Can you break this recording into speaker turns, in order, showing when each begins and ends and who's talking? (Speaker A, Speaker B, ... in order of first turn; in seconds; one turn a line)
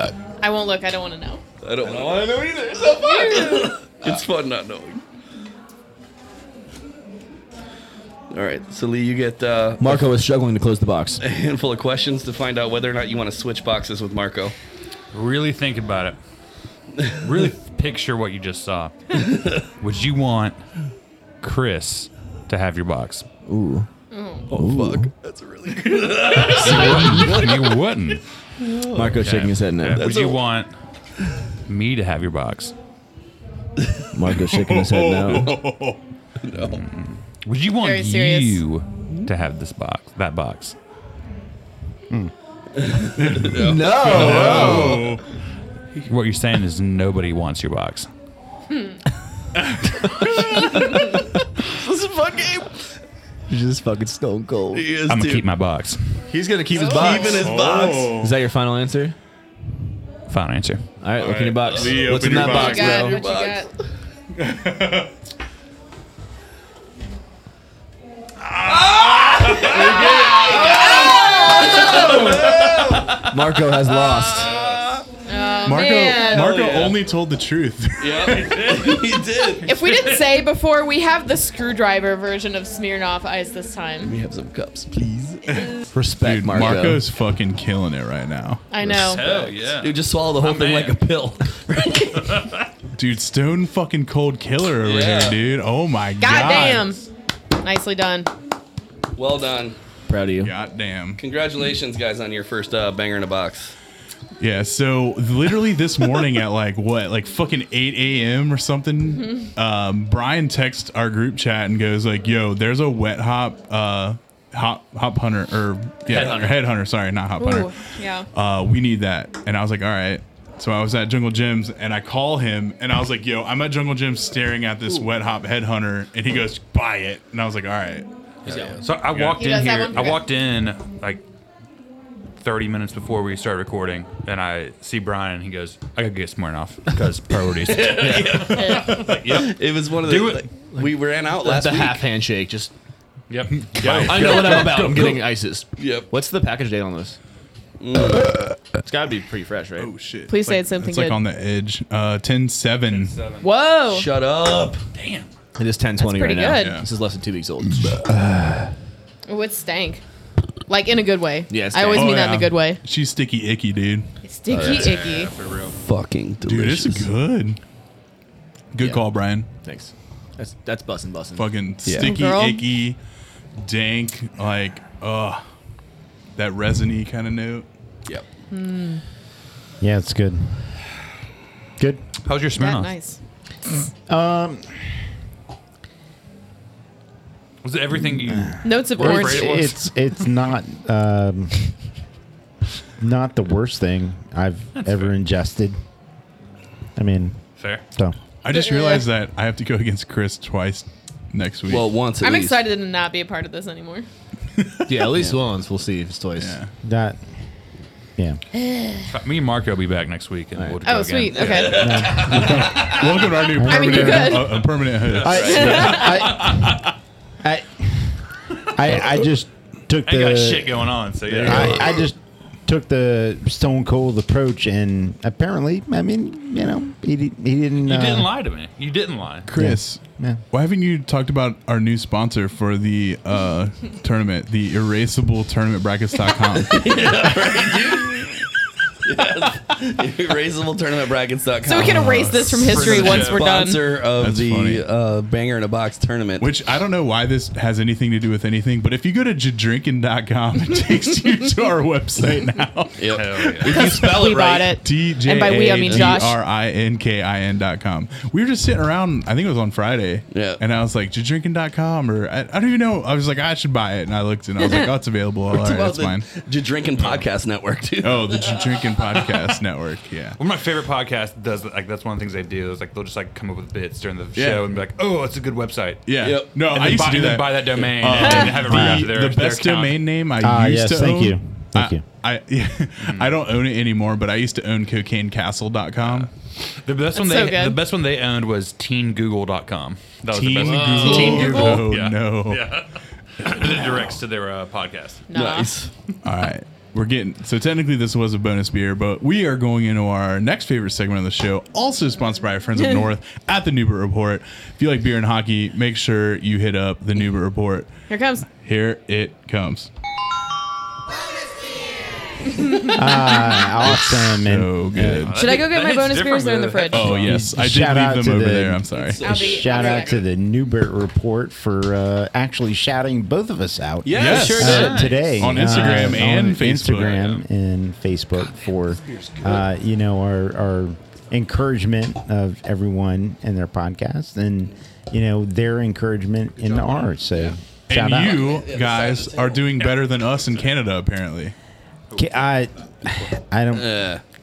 Speaker A: 0.4-1.4
Speaker B: 1.6-5.0
Speaker C: 1.9-3.4
Speaker A: 3.0-3.8
Speaker B: 8.3-10.1
Speaker C: 9.8-11.2
Speaker B: 11.2-14.6
Speaker D: 15.1-16.2
Speaker D: 17.1-20.6
Speaker B: 19.3-19.6
Speaker D: 21.4-23.3
Speaker C: 23.5-23.9
Speaker A: 24.1-24.5
Speaker B: 24.5-27.8
Speaker C: 24.5-25.1
Speaker D: 26.2-28.2
Speaker C: 26.6-27.4
Speaker B: 28.6-29.3
Speaker C: 28.9-30.1
Speaker D: 29.2-30.7
Speaker B: 29.9-30.4
Speaker D: 31.7-32.7
Speaker C: 34.1-35.5
Speaker E: 34.4-36.0
Speaker B: 36.4-36.8
Speaker D: 36.8-40.8
Speaker A: 37.8-38.6
Speaker B: 42.8-45.1
Speaker E: 43.2-45.2
Speaker C: 43.5-45.0
Speaker D: 44.1-45.0
Speaker D: 46.0-48.1
Speaker E: 49.6-50.8
Speaker B: 50.6-51.0
Speaker B: 51.6-52.9
Speaker C: 53.5-54.9
Speaker B: 54.7-55.5
Speaker D: 55.1-56.2
Speaker C: 56.3-57.6
Speaker A: 56.7-57.2
Speaker B: 56.8-58.1
Speaker E: 56.9-58.4
Speaker C: 58.2-59.1
Speaker D: 60.3-60.9
Speaker C: 61.0-63.2
Speaker E: 61.2-63.1
Speaker B: 62.0-63.8
Speaker A: 62.3-63.7
Speaker E: 64.4-65.1
Speaker B: 68.6-73.3
Speaker E: 69.6-70.6
Speaker D: 69.7-70.8
Speaker A: 70.5-72.0
Speaker E: 72.0-72.8
Speaker C: 73.2-74.5
Speaker B: 73.9-75.0
Speaker D: 74.5-74.8
Speaker A: 75.3-76.6
Speaker E: 75.7-79.1
Speaker B: 76.2-77.0
Speaker B: 78.0-79.8
Speaker A: 79.6-84.2
Speaker B: 84.0-85.7
Speaker E: 85.5-88.7
Speaker C: 85.9-87.0
Speaker A: 88.7-89.2
Speaker D: 88.9-91.0
Speaker B: 89.2-92.5
Speaker D: 92.1-92.6
Speaker E: 93.0-97.0
Speaker B: 94.8-95.4
Speaker A: 96.2-97.1
Speaker A: 97.6-98.3
Speaker B: 99.2-99.8
Speaker C: 100.1-100.5
Speaker E: 100.4-101.2
Speaker B: 101.2-103.7
Speaker E: 104.4-117.8
Speaker A: 109.2-109.5
Speaker D: 116.1-116.4
Speaker B: 116.1-116.5
Speaker A: 117.4-118.3
Speaker E: 118.3-128.1
Speaker B: 128.5-128.8
Speaker C: 128.5-128.8
Speaker D: 128.8-131.2
Speaker E: 129.1-129.4
Speaker A: 129.4-130.2
Speaker D: 132.4-140.5
Speaker B: 137.7-142.0
Speaker A: 138.6-138.8
Speaker C: 140.8-142.7
Speaker D: 143.3-145.2
Speaker E: 143.7-144.4
Speaker C: 143.8-147.2
Speaker B: 144.3-145.2
Speaker B: 145.8-146.1
Speaker B: 147.8-148.5
Speaker C: 148.8-149.9
Speaker E: 149.8-153.1
Speaker A: 150.3-151.2
Speaker D: 152.9-153.5
Speaker A: 153.4-154.1
Speaker B: 153.9-154.8
Speaker D: 154.9-155.3
Speaker C: 155.6-158.0
Speaker A: 156.0-156.8
Speaker E: 156.5-156.9
Speaker A: 159.3-160.0
Speaker A: 160.7-162.8
Speaker C: 161.5-162.3
Speaker E: 161.9-164.1
Speaker A: 164.2-165.3
Speaker B: 164.5-165.0
Speaker D: 164.5-165.8
Speaker B: 165.7-167.1
Speaker E: 166.4-167.6
Speaker E: 168.7-169.5
Speaker C: 168.8-171.5
Speaker E: 171.4-173.0
Speaker B: 171.8-172.1
Speaker A: 171.9-172.6
Speaker E: 173.6-175.4
Speaker E: 176.3-177.7
Speaker A: 178.5-179.0
Speaker F: 179.8-180.7
Speaker F: 181.8-182.0
Speaker D: 182.2-182.9
Speaker A: 182.6-183.2
Speaker F: 184.1-184.8
Speaker D: 187.6-190.0
Speaker F: 188.2-191.7
Speaker A: 188.6-189.7
Speaker F: 193.0-195.8
Speaker D: 194.8-195.1
Speaker F: 197.0-197.4
Speaker D: 197.6-197.8
Speaker E: 198.4-202.0
Speaker A: 198.5-199.1
Speaker B: 201.7-202.6
Speaker A: 202.2-204.1
Speaker E: 204.6-205.1
Speaker C: 204.9-206.6
Speaker E: 206.4-206.7
Speaker F: 206.8-207.2
Speaker A: 208.7-209.0
Speaker D: 209.1-212.9
Speaker A: 210.8-211.9
Speaker B: 211.3-212.4
Speaker F: 211.6-214.6
Speaker E: 212.3-216.0
Speaker A: 213.7-214.7
Speaker D: 215.0-216.8
Speaker F: 215.2-216.8
Speaker B: 215.3-215.8
Speaker A: 215.5-216.2
Speaker F: 217.4-218.2
Speaker F: 218.8-228.3
Speaker D: 220.0-222.1
Speaker C: 221.3-221.6
Speaker D: 227.8-229.5
Speaker E: 229.5-237.3
Speaker F: 229.5-230.4
Speaker B: 236.7-238.5
Speaker B: 239.0-246.5
Speaker A: 241.6-243.8
Speaker E: 241.8-243.4
Speaker D: 242.7-243.5
Speaker E: 244.1-244.8
Speaker E: 246.4-266.3
Speaker B: 253.0-254.8
Speaker D: 253.1-253.9
Speaker A: 253.7-256.4
Speaker B: 255.9-256.2
Speaker B: 260.3-260.6
Speaker B: 265.5-268.6
Speaker D: 267.0-267.2
Speaker E: 268.0-270.4
Speaker D: 270.4-280.0
Speaker E: 274.4-274.6
Speaker E: 276.1-286.3
Speaker B: 276.2-276.6
Speaker A: 278.2-278.6
Speaker F: 278.6-279.1
Speaker F: 280.4-282.0
Speaker D: 283.0-283.4
Speaker D: 286.0-295.2
Speaker A: 287.1-287.8
Speaker E: 290.3-292.7
Speaker C: 290.6-291.7
Speaker B: 290.8-291.6
Speaker A: 291.0-291.8
Speaker A: 295.3-295.7
Speaker B: 295.3-295.9
Speaker E: 296.2-307.9
Speaker A: 308.1-308.5
Speaker E: 308.6-309.9
Speaker A: 312.6-313.0
Speaker F: 312.9-315.3
Speaker E: 314.0-315.5
Speaker D: 315.1-317.3
Speaker A: 315.4-317.2
Speaker E: 316.9-319.2
Speaker F: 317.1-338.5
Speaker B: 318.9-320.2
Speaker A: 319.2-320.2
Speaker B: 324.1-325.4
Speaker E: 324.1-327.3
Speaker D: 324.4-326.0
Speaker D: 327.0-327.4
Speaker D: 328.4-329.0
Speaker B: 329.0-329.7
Speaker B: 336.6-337.6
Speaker E: 337.9-341.6
Speaker B: 338.3-339.7
Speaker D: 339.8-340.7
Speaker D: 342.1-343.3
Speaker F: 342.2-344.1
Speaker B: 343.7-344.2